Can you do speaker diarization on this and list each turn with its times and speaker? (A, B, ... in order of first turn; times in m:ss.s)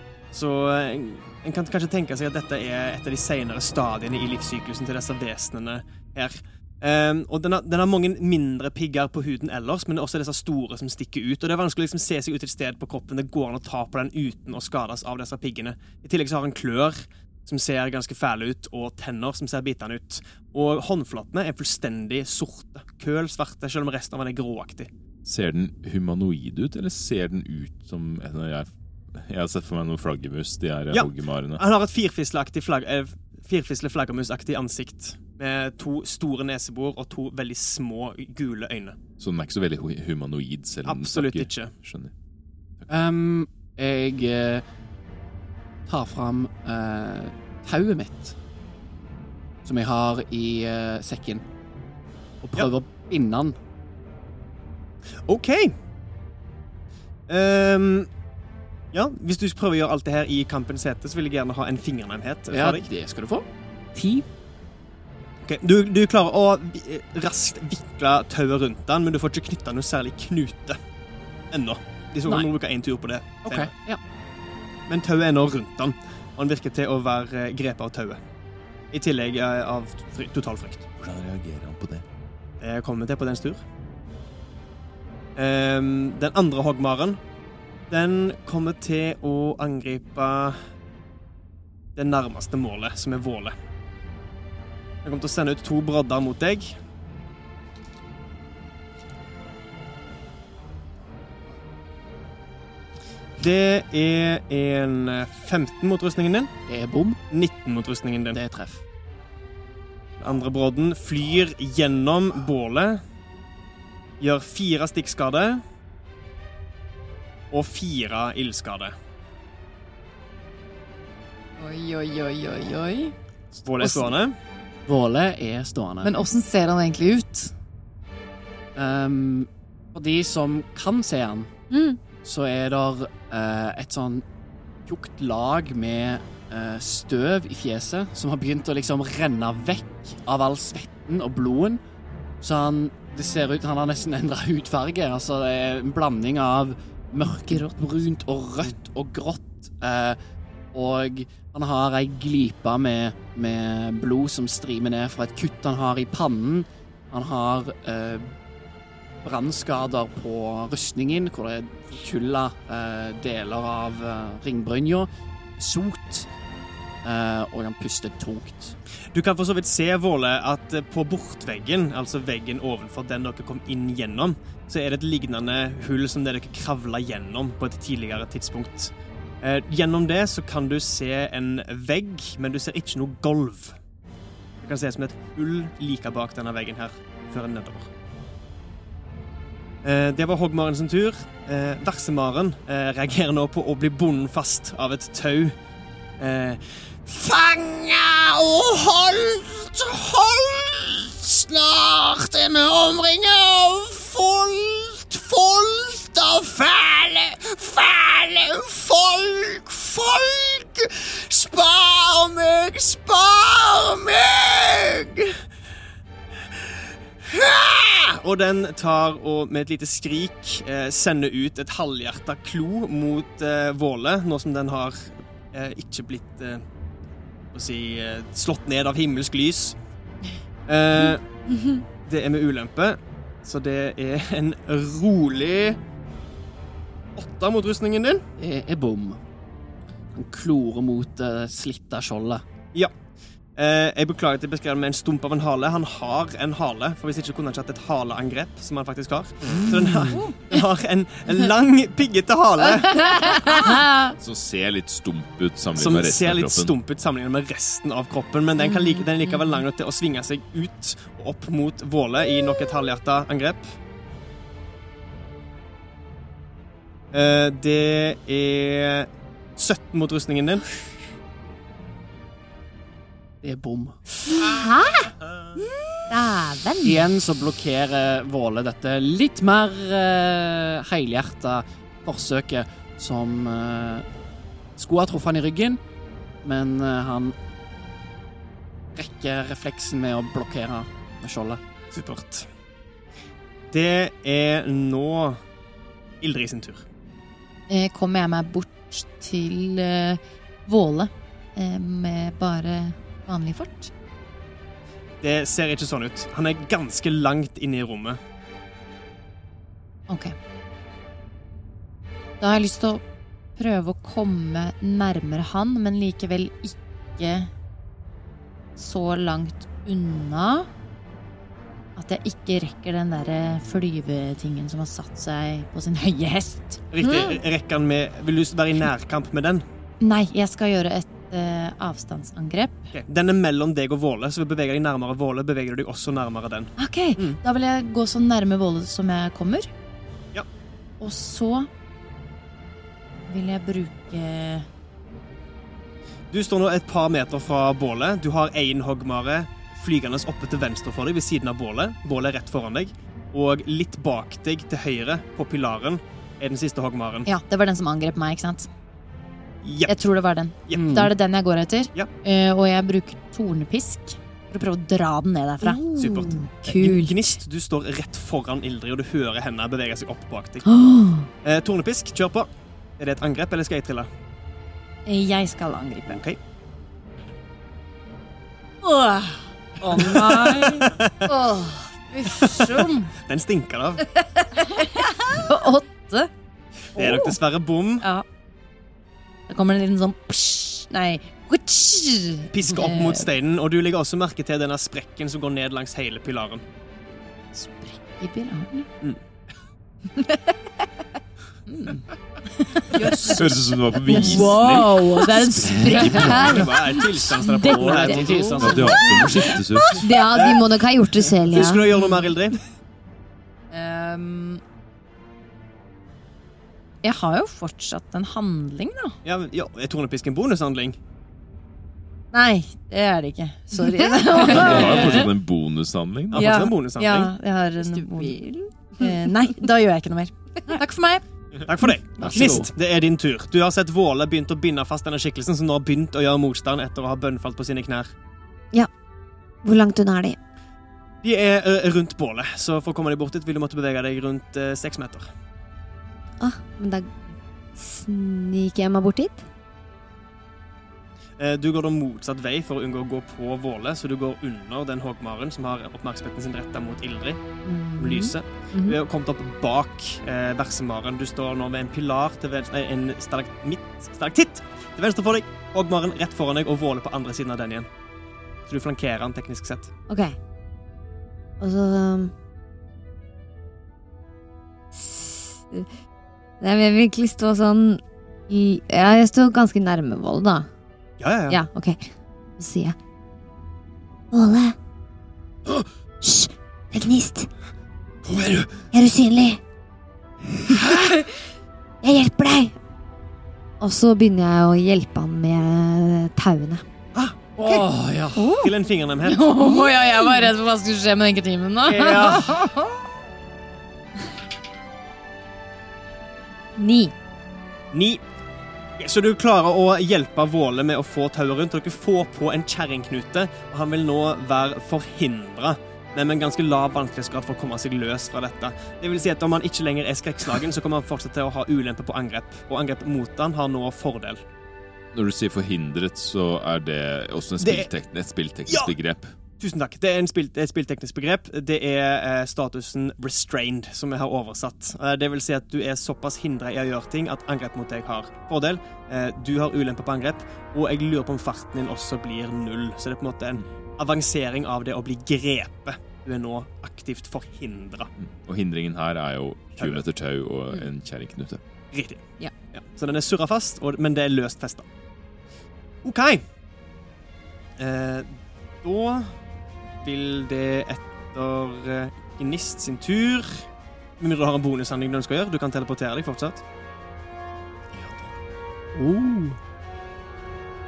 0:00.3-0:24.9 A
0:25.2-0:31.6 B
0:30.9-0:39.0 A
0:39.2-0:42.1 B
0:40.8-0:41.7 A
0:42.9-0:44.6 C
0:45.9-0:48.4 C
0:49.6-0:51.4 C
0:52.4-0:53.6 C
0:55.2-0:55.7 A
0:57.3-0:58.1 A
0:58.9-1:02.9 A
1:02.5-1:04.2 C
1:05.4-1:10.8 A
1:11.5-1:13.7 A
1:13.4-1:14.0 C
1:14.9-1:18.2 A
1:18.9-1:20.8 A
1:21.0-1:22.0 B
1:22.6-1:23.6 A
1:25.4-1:27.2 A
1:27.9-1:30.6 A
1:32.0-1:33.6 A
1:35.0-1:36.8 A
1:43.4-1:46.5 A
1:46.7-1:47.2 C
1:47.3-1:48.4 A
1:48.3-1:48.8 C
1:50.2-1:53.0 A
1:54.2-1:55.6 A
1:57.5-1:58.9 A
2:01.6-2:03.1 D
2:03.6-2:04.4 A
2:04.8-2:06.1 C
2:06.0-2:07.5 D
2:08.7-2:11.5 C
2:11.7-2:12.0 E
2:12.2-2:14.2 C
2:14.8-2:21.8 C
2:22.4-2:30.2 C
2:27.3-2:27.7 D
2:30.7-2:38.3 C
2:39.2-2:46.3 C
2:47.0-2:48.8 C
2:49.1-3:03.8 A
3:04.6-3:07.9 A
3:09.8-3:15.6 A
3:16.2-3:16.6 A
3:17.0-3:35.3 F
3:37.3-3:38.0 F
3:38.2-3:46.6 A
3:47.5-3:49.8 A
3:50.7-3:51.2 A
3:52.0-3:55.8 A
3:57.2-3:58.2 A
3:58.4-3:59.2 C
4:00.1-4:02.4 C
4:03.6-4:13.5 A
4:09.7-4:10.2 C
4:13.1-4:14.1 D
4:14.2-4:16.7 B
4:15.8-4:23.7 A
4:18.7-4:19.0 E
4:27.1-4:30.7 A
4:33.4-4:34.0 C
4:34.5-4:35.1 E
4:36.1-4:37.1 E
4:36.8-4:44.0 C
4:44.8-4:45.8 C
4:46.4-4:47.3 C
4:48.9-4:51.6 C
4:51.9-4:52.5 A
4:53.7-4:55.4 A
4:56.2-4:56.8 A
4:57.7-5:03.9 D
5:05.2-5:08.2 A
5:10.1-5:10.3 D
5:12.4-5:13.0 D
5:13.6-5:17.5 D
5:18.8-5:20.7 D
5:22.0-5:26.8 D
5:26.9-5:29.6 A
5:27.0-5:27.4 E
5:30.0-5:32.9 D
5:32.9-5:37.4 A
5:36.8-5:39.7 D
5:41.0-5:41.7 D
5:43.3-5:44.6 D
5:46.3-5:57.3 A
5:57.2-5:58.7 D
5:59.6-6:00.0 A
5:59.9-6:05.8 D
6:00.7-6:01.1 A
6:00.7-6:01.1 C
6:05.6-6:07.1 E
6:06.0-6:10.7 A
6:10.6-6:11.3 E
6:11.4-6:14.1 A
6:15.0-6:16.2 D
6:16.0-6:16.4 A
6:18.8-6:23.1 D
6:19.8-6:20.9 C
6:19.9-6:21.3 A
6:22.3-6:24.0 A
6:24.2-6:26.3 D
6:26.9-6:28.1 A
6:27.0-6:27.4 D
6:29.5-6:33.3 D
6:32.5-6:36.6 A
6:37.5-6:38.9 D
6:41.7-6:46.7 D
6:43.2-6:46.6 B
6:44.1-6:48.2 E
6:45.7-6:46.4 C
6:46.3-6:49.0 A
6:47.3-6:50.0 D
6:47.6-6:48.9 C
6:48.6-6:50.0 B
6:49.8-6:51.8 E
6:50.3-6:50.7 A
6:51.4-6:52.6 A
6:53.7-6:54.6 D
6:57.0-6:59.2 D
6:59.2-7:01.0 A
7:02.3-7:05.3 D
7:04.4-7:06.6 B
7:04.5-7:05.2 C
7:06.3-7:07.3 A
7:06.3-7:08.4 D
7:08.0-7:09.3 E
7:09.0-7:11.2 D
7:11.6-7:18.1 A
7:12.2-7:12.7 C
7:19.6-7:20.4 E
7:21.2-7:25.3 A
7:26.4-7:29.4 E
7:31.4-7:37.4 A
7:37.6-7:39.0 E
7:38.0-7:47.9 A
7:48.7-7:49.9 A
7:50.1-7:50.3 E
7:51.6-7:52.3 E
7:54.9-7:55.9 E
7:56.6-8:00.7 E
8:01.2-8:01.6 A
8:01.5-8:02.0 E
8:02.6-8:03.0 E
8:04.3-8:04.8 E
8:06.2-8:07.5 E
8:08.3-8:08.8 C
8:08.9-8:09.6 E
8:10.7-8:11.2 E
8:12.0-8:12.8 E
8:13.8-8:16.8 E
8:17.1-8:17.9 A
8:17.6-8:18.5 C
8:18.3-8:18.7 E
8:18.6-8:19.6 A
8:19.2-8:22.6 D
8:19.6-8:20.5 E
8:21.8-8:22.9 C
8:26.8-8:27.1 E
8:27.9-8:28.2 A
8:29.0-8:44.4 A
8:45.1-8:49.3 B
8:47.6-8:47.9 A
8:48.7-8:48.9 A
8:49.6-9:08.1 A
9:08.2-9:11.6 B
9:09.8-9:10.0 A
9:11.9-9:14.8 A
9:16.0-9:16.4 A
9:17.8-9:19.4 A
9:20.0-9:23.6 A
9:24.2-9:26.6 A
9:28.9-9:29.6 C